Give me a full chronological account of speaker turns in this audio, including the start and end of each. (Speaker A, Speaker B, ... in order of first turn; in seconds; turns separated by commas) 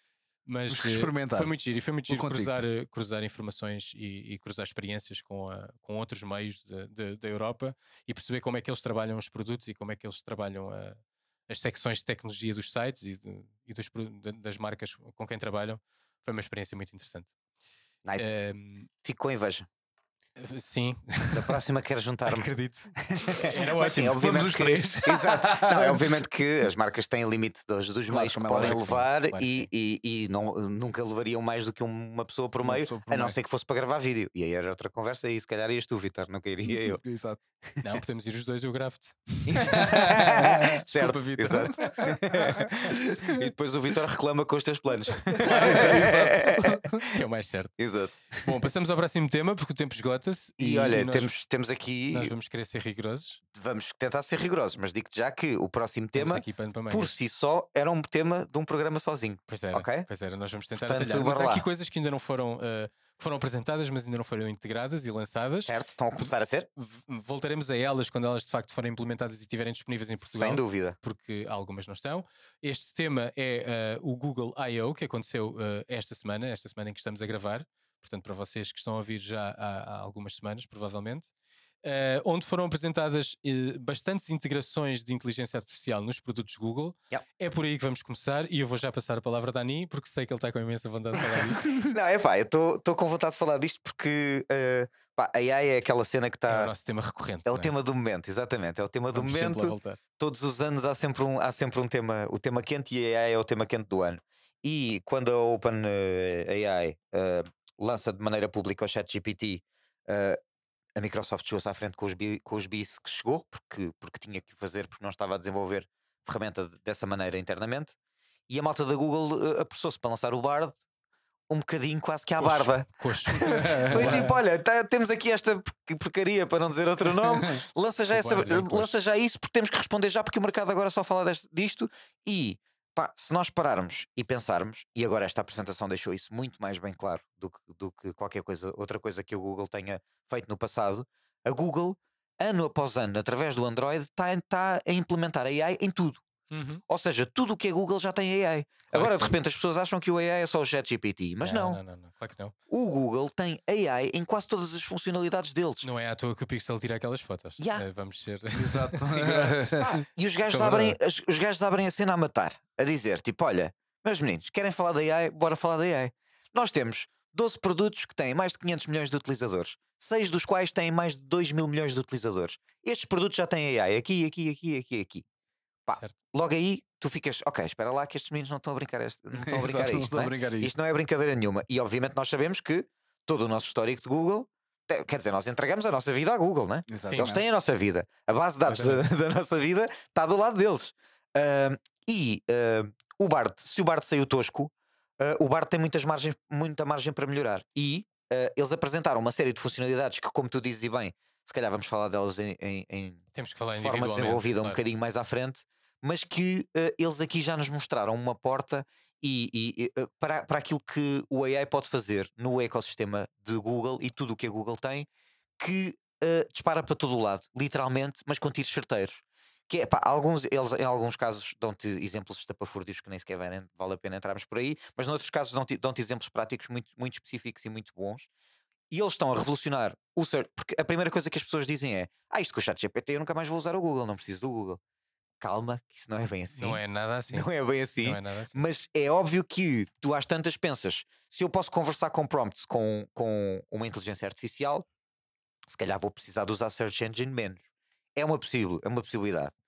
Speaker A: 0.5-17.3, Speaker B: 0.7-1.5, Speaker B: 2.1-2.6, Speaker C: 18.1-18.4, Speaker A: 18.2-18.9, Speaker C: 19.0-19.7, Speaker A: 20.4-21.6, Speaker C: 21.3-37.0, Speaker A: 22.3-24.6, Speaker B: 24.0-26.1, Speaker B: 28.1-28.8, Speaker A: 28.6-29.7, Speaker B: 32.6-33.4, Speaker B: 36.6-37.4, Speaker A: 37.8-42.7, Speaker C: 39.5-42.7, Speaker B: 39.7-40.7, Speaker B: 41.8-43.4, Speaker C: 43.3-47.1, Speaker B: 45.3-47.0, Speaker A: 45.4-46.1, Speaker A: 47.1-47.8, Speaker C: 47.8-48.5, Speaker A: 48.4-51.3, Speaker C: 50.6-52.3, Speaker A: 52.1-53.4, Speaker C: 53.5-60.1, Speaker A: 56.1-57.1, Speaker A: 59.5-66.2, Speaker C: 60.8-61.7, Speaker C: 65.7-66.7, Speaker A: 66.8-81.3, Speaker C: 70.2-71.0, Speaker A: 81.8-91.8, Speaker C: 91.2-96.7, Speaker A: 96.5-97.7, Speaker C: 97.5-110.4, Speaker A: 99.1-100.0, Speaker C: 111.0-118.0, Speaker C: 118.5-120.8, Speaker C: 121.5-146.2, Speaker A: 122.4-124.3, Speaker B: 123.5-124.3, Speaker A: 128.1-129.0, Speaker A: 146.5-146.8, Speaker C: 146.9-151.8, Speaker A: 148.9-149.3, Speaker A: 151.4-152.6, Speaker C: 152.7-155.9, Speaker A: 155.8-159.8, Speaker C: 157.6-157.9, Speaker B: 158.5-160.0, Speaker C: 159.8-175.2, Speaker A: 160.5-161.0, Speaker C: 175.9-203.2, Speaker A: 175.9-176.2, Speaker B: 179.3-180.7, Speaker B: 186.9-187.4, Speaker A: 187.0-187.4, Speaker A: 188.7-189.1, Speaker A: 203.3-204.8, Speaker C: 203.8-215.1, Speaker C: 215.6-228.3, Speaker C: 228.9-234.8, Speaker C: 235.4-244.9, Speaker A: 236.5-237.5, Speaker A: 238.0-238.6, Speaker C: 245.7-249.5